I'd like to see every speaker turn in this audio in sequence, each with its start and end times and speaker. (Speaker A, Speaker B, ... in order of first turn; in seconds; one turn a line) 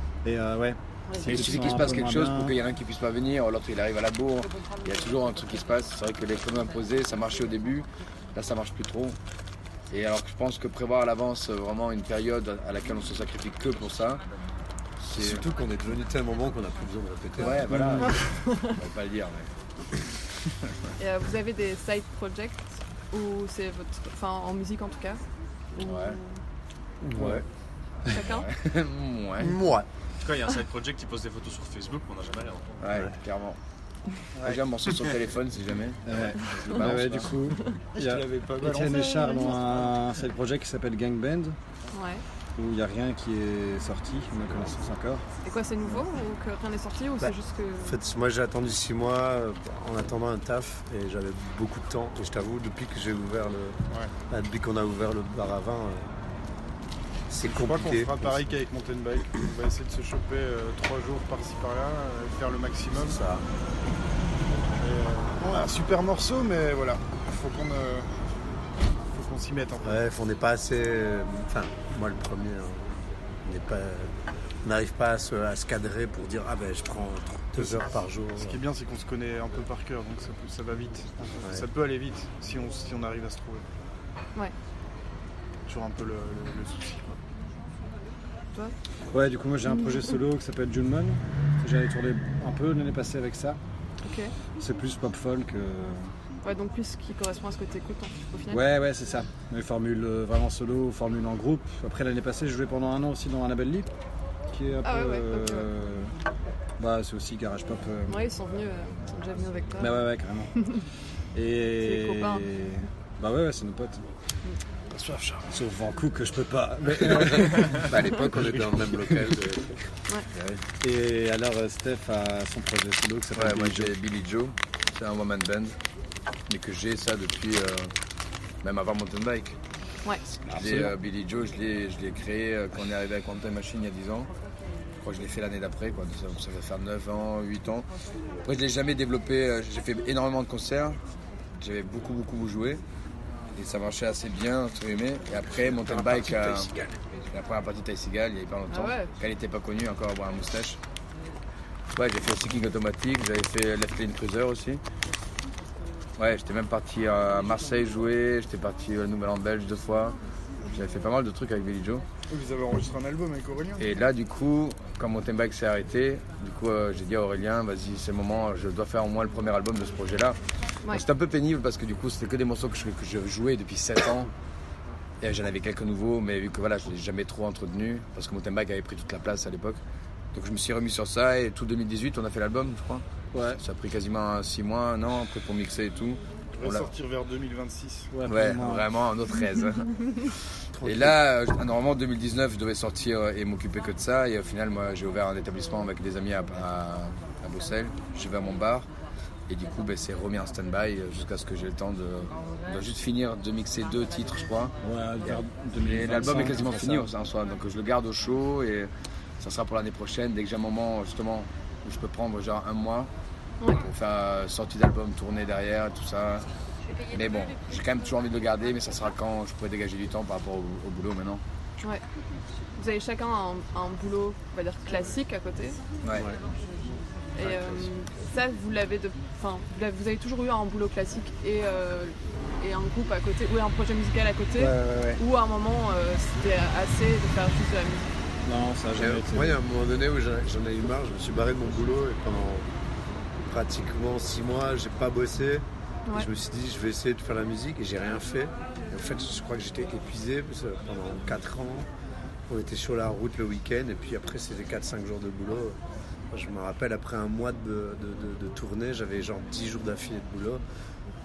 Speaker A: 0.2-2.5
Speaker B: 1.1-1.5
Speaker C: 1.2-9.2
Speaker C: 9.9-14.2
Speaker C: 15.0-15.5
Speaker D: 15.1-18.0
Speaker C: 17.4-19.5
Speaker A: 17.7-18.1
Speaker B: 18.0-18.8
Speaker B: 21.0-25.2
Speaker B: 25.8-26.4
Speaker C: 25.8-26.2
Speaker D: 27.0-27.4
Speaker B: 28.1-28.5
Speaker C: 28.1-29.6
Speaker D: 29.4-29.9
Speaker E: 30.2-32.7
Speaker C: 32.8-33.6
Speaker C: 34.4-37.3
Speaker A: 36.1-41.6
Speaker F: 37.9-39.9
Speaker B: 38.9-39.5
Speaker B: 41.9-42.2
Speaker A: 42.6-45.2
Speaker B: 45.5-48.0
Speaker D: 47.2-56.1
Speaker D: 57.3-58.5
Speaker F: 57.4-63.2
Speaker D: 62.9-63.4
Speaker F: 64.8-68.1
Speaker F: 69.1-70.0
Speaker D: 69.8-78.6
Speaker F: 77.6-83.7
Speaker D: 81.3-81.7
Speaker F: 85.7-87.2
Speaker A: 89.1-93.6
Speaker B: 94.0-94.3
Speaker A: 94.6-96.1
Speaker B: 96.4-98.7
Speaker A: 98.5-103.9
Speaker A: 104.5-106.1
Speaker B: 104.8-105.7
Speaker A: 106.8-108.3
Speaker B: 108.1-110.0
Speaker A: 109.8-110.7
Speaker A: 111.3-114.0
Speaker B: 111.8-112.5
Speaker A: 114.9-119.3
Speaker D: 116.9-120.5
Speaker A: 120.8-123.9
Speaker C: 123.4-125.8
Speaker C: 126.5-127.9
Speaker C: 128.6-129.6
Speaker C: 130.4-134.3
Speaker A: 130.5-130.9
Speaker C: 135.0-137.9
Speaker C: 138.4-141.0
Speaker C: 141.6-142.8
Speaker C: 143.5-146.7
Speaker D: 145.5-147.0
Speaker C: 147.3-150.8
Speaker B: 148.7-149.1
Speaker C: 151.9-154.8
Speaker C: 156.2-162.0
Speaker F: 162.3-163.8
Speaker C: 163.8-170.4
Speaker C: 170.9-174.3
Speaker C: 175.2-179.8
Speaker C: 180.3-183.0
Speaker A: 183.3-183.6
Speaker C: 183.6-186.9
Speaker F: 186.6-188.1
Speaker A: 188.1-188.9
Speaker C: 188.3-198.9
Speaker D: 190.7-191.2
Speaker C: 199.5-208.9
Speaker A: 204.8-207.1
Speaker C: 209.4-213.1
Speaker C: 213.7-216.5
Speaker C: 217.1-221.4
Speaker B: 222.8-225.8
Speaker D: 226.1-226.4
Speaker B: 227.4-238.2
Speaker D: 227.4-228.0
Speaker A: 234.6-235.2
Speaker A: 238.4-239.6
Speaker D: 238.9-242.7
Speaker D: 243.4-251.9
Speaker D: 252.5-260.6